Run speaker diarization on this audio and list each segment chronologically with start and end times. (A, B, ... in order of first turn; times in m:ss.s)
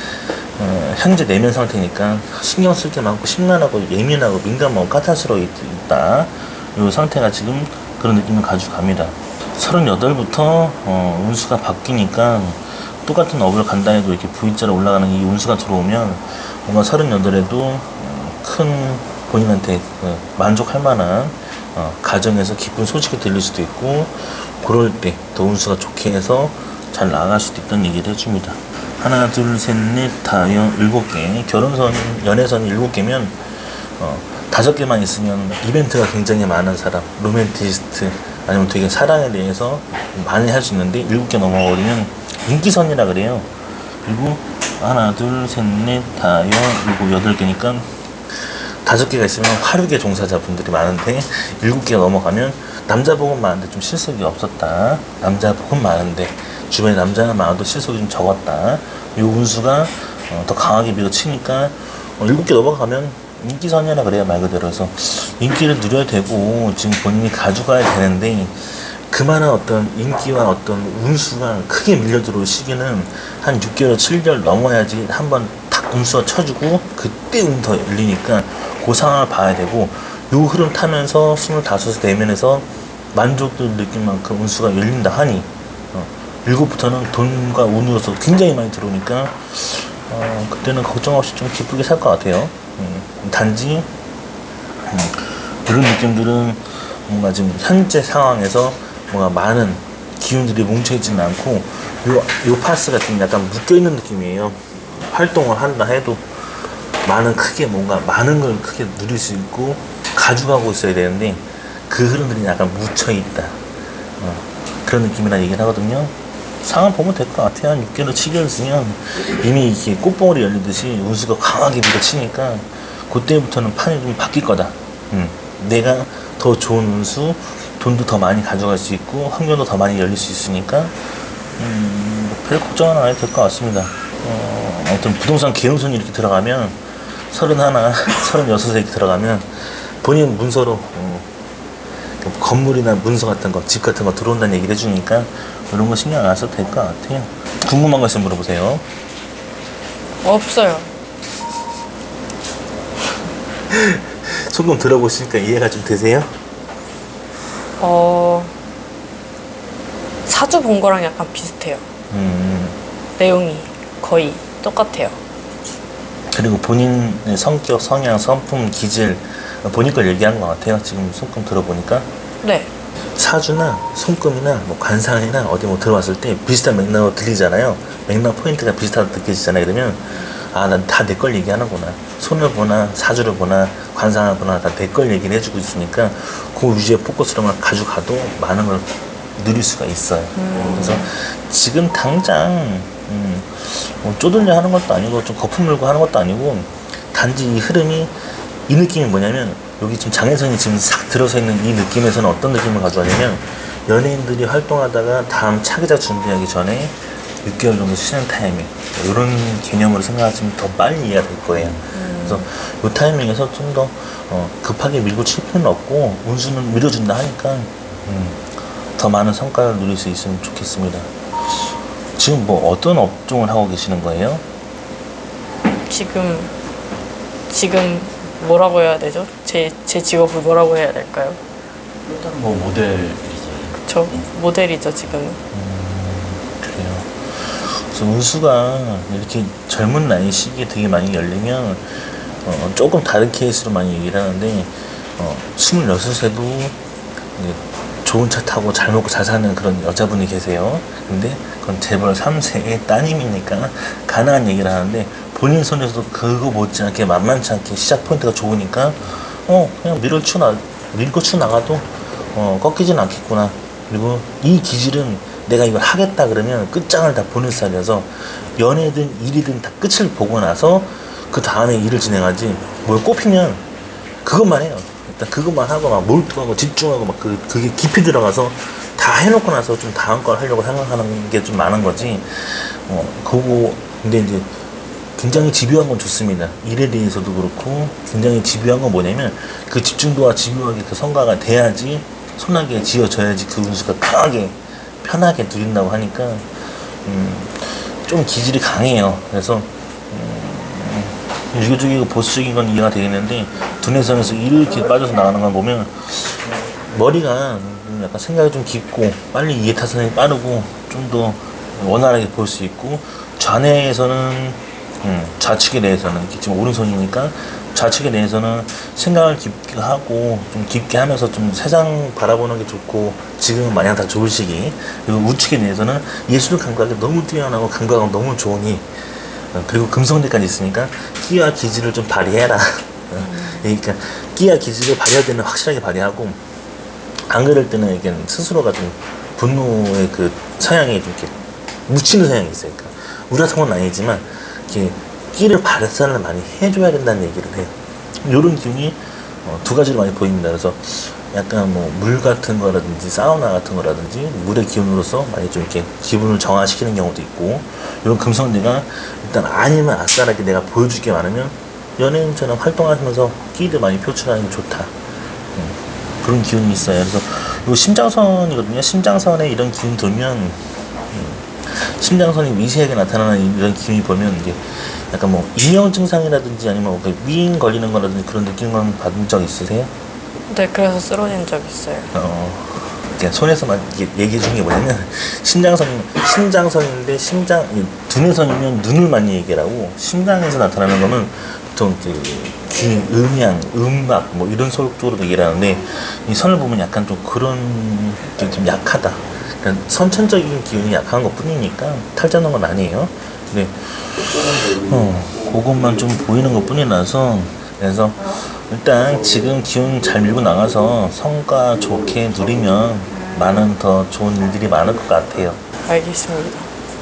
0:00.6-0:43.5 A
0:44.0-1:33.9 A
1:34.9-1:53.6 A
1:54.2-2:11.0 A
2:11.6-2:21.3 A
2:22.2-2:28.8 A
2:30.2-2:30.9 B
2:33.7-2:36.3 A
2:37.8-2:38.5 B
2:40.3-2:41.8 B
2:42.1-2:42.8 A
2:43.2-2:45.2 B
2:46.3-2:52.1 A
2:52.4-2:52.7 B
2:53.2-3:18.1 A
3:10.4-3:11.1 B
3:18.7-3:44.4 A
3:31.9-3:32.4 B
3:45.9-3:46.5 B
3:47.5-3:51.4 B
3:52.1-3:54.2 C
3:53.8-3:55.4 B
3:55.5-4:06.8 A
4:07.4-4:33.6 A
4:34.2-4:44.5 A
4:45.2-5:28.9 A
5:29.5-5:36.4 A
5:33.2-5:33.6 B
5:37.3-5:41.3 A
5:41.9-6:05.0 A
6:05.5-6:19.9 A
6:20.5-6:22.1 B
6:22.1-6:55.6 A
6:55.8-6:56.7 B